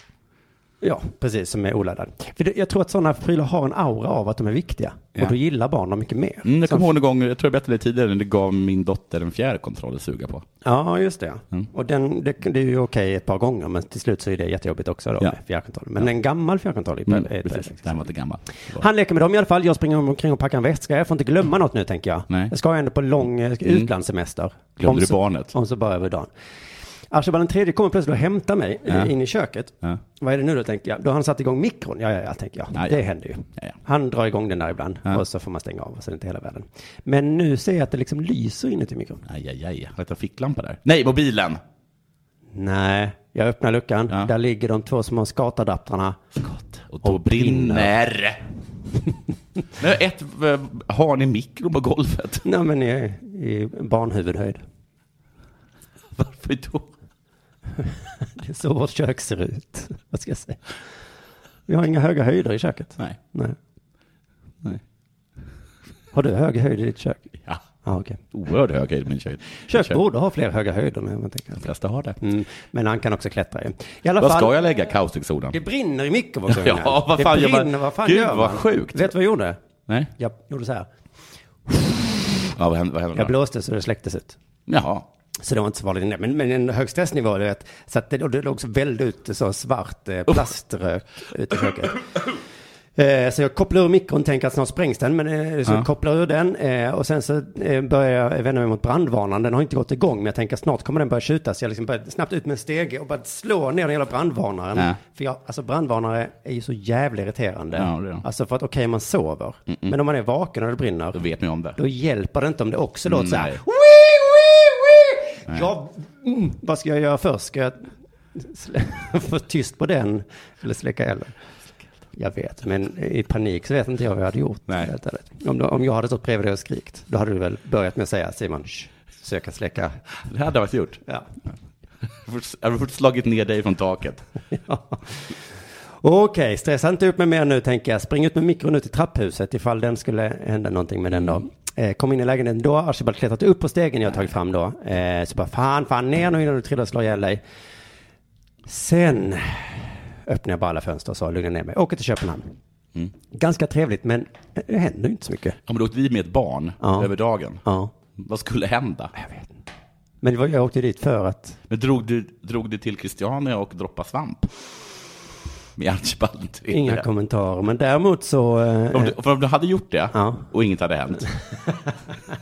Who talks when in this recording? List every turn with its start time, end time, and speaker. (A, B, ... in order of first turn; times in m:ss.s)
0:00.8-0:06.9 A
0:06.4-0:10.4 B
0:10.6-0:18.0 A
0:17.1-0:18.8 B
0:18.7-0:26.3 A
0:24.8-0:25.5 B
0:27.1-0:39.2 A
0:28.9-0:29.1 B
0:32.7-0:33.0 B
0:39.2-0:41.6 B
0:42.5-0:46.2 A
0:46.4-0:48.4 B
0:47.0-0:47.9 A
0:49.8-0:52.4 B
0:52.4-0:54.6 A
0:56.2-0:56.9 B
0:58.4-1:00.6 A
1:01.7-1:03.6 A
1:06.1-1:07.3 A
1:07.8-1:08.2 A
1:08.3-1:10.0 B
1:09.7-1:11.6 A
1:11.5-1:12.2 B
1:12.2-1:14.5 A
1:14.2-1:15.6 B
1:15.5-1:19.6 A
1:16.5-1:19.1 B
1:20.2-1:20.9 A
1:21.7-1:21.9 A
1:22.6-1:23.3 B
1:23.1-1:24.4 A
1:24.7-1:25.1 B
1:25.4-1:32.0 A
1:33.0-1:51.2 A
1:47.7-1:48.2 B
1:49.7-1:50.0 B
1:51.1-1:51.8 B
1:51.8-2:01.4 A
1:53.1-1:53.6 B
2:02.2-2:10.0 A
2:10.2-2:11.0 B
2:12.0-2:14.2 B
2:14.6-2:15.4 A
2:16.0-2:27.4 A
2:28.7-2:32.6 A
2:33.3-2:35.6 A
2:35.7-2:37.6 B
2:36.8-2:37.1 A
2:37.6-2:37.9 A
2:38.2-2:39.1 B
2:39.2-2:39.5 A
2:40.2-2:41.6 A
2:41.7-2:44.5 B
2:45.8-2:47.0 B
2:46.7-2:49.1 A
2:48.9-2:51.3 B
2:50.1-2:50.5 A